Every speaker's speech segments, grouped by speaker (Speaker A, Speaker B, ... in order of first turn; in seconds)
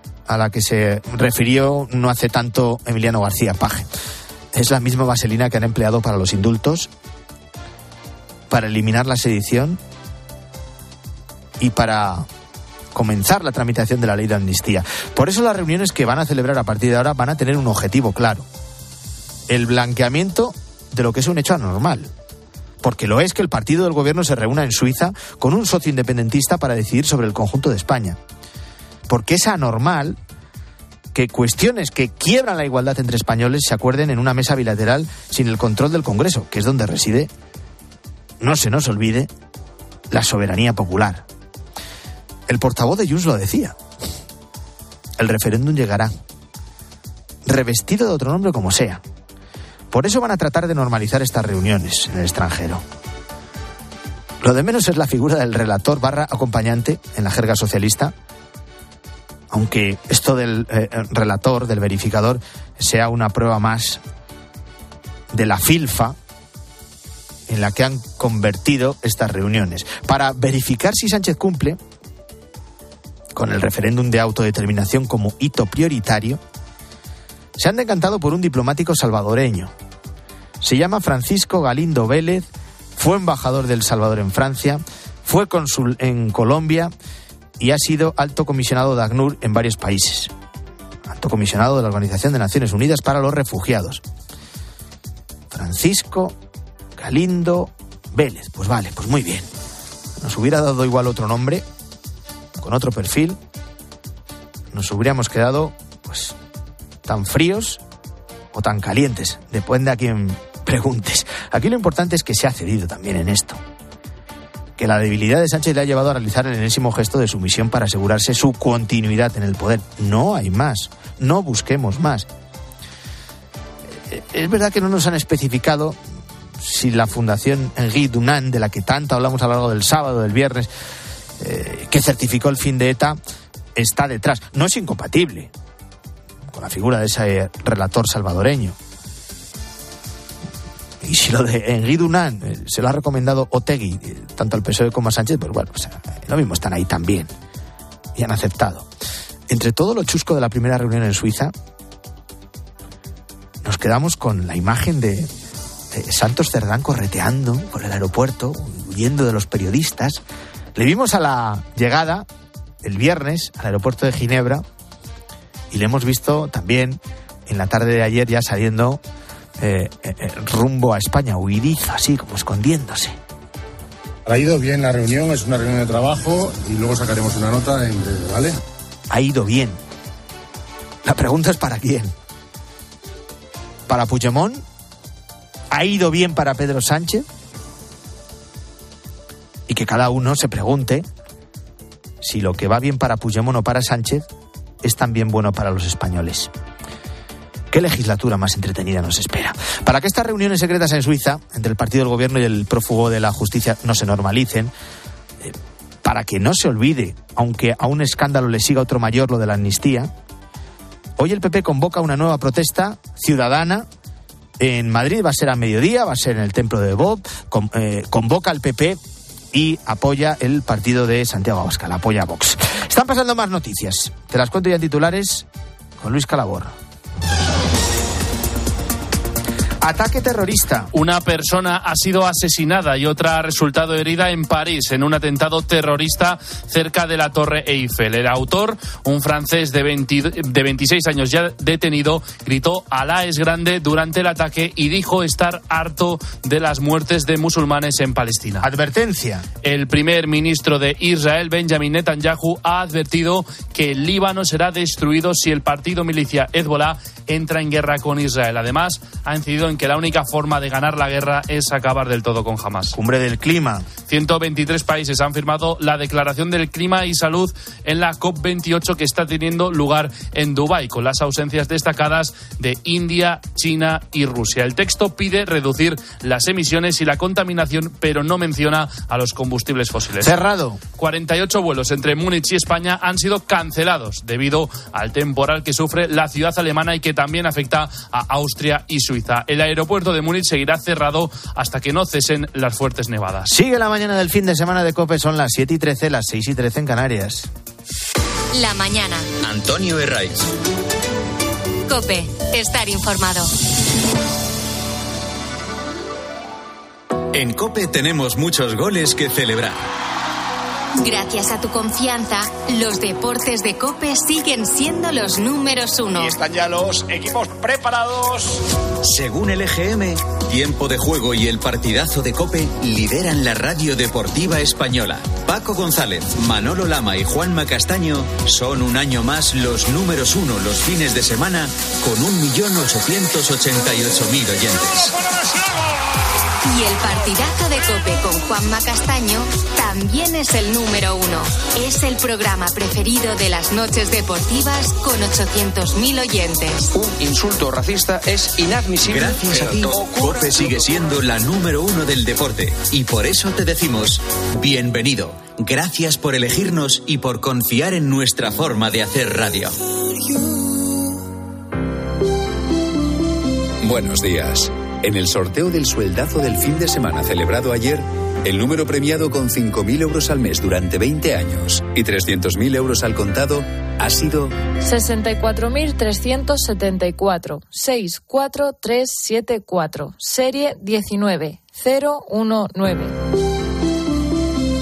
Speaker A: 0.3-3.9, 4.5-6.9, 8.5-9.8, 11.6-12.3, 12.9-18.5, 19.5-22.1, 22.8-28.2, 29.1-30.2, 31.1-37.3, 38.4-39.3, 40.1-41.2, 42.5-43.8, 45.2-46.1, 47.5-49.0, 49.9-52.8, 54.4-58.1, 59.5-64.0, 65.3-66.2, 67.5-71.8, 73.3-76.4, 77.6-79.7, 80.6-86.9, 87.6-90.3, 91.1-94.0, 95.5-96.3, 97.0-99.5, 100.2-101.6, 102.6-103.4, 104.7-106.3, 107.0-107.8, 108.5-113.6, 114.8-122.3, 124.1-126.0, 126.6-130.7, 131.4-133.2, 133.8-135.5, 136.5-138.8, 141.0-147.3, 148.2-148.9, 149.5-151.5, 153.6-155.3, 155.9-160.2, 160.8-162.3, 162.8-164.6, 165.7-169.0, 169.6-173.1, 179.1-179.8, 181.1-182.1, 183.9-184.6, 185.7-187.2, 189.7-191.1, 192.2-194.3, 194.8-196.5, 197.7-204.7, 205.4-210.1, 211.2-213.9, 214.6-219.0, 219.5-225.5, 226.0-226.7, 229.8-230.9, 248.6-249.5, 262.9-263.9, 280.2-280.8, 293.5-297.5
Speaker B: 174.3-178.6
Speaker C: 230.9-248.7, 249.6-262.9, 264.1-280.4, 281.0-293.5
Speaker D: 298.5-299.3, 301.9-303.5, 311.0-316.4, 336.6-346.9
Speaker E: 299.4-300.5, 307.3-309.8, 319.0-335.2, 349.0-359.8
Speaker F: 346.9-350.6
Speaker G: 363.8-374.6
Speaker H: 374.8-383.2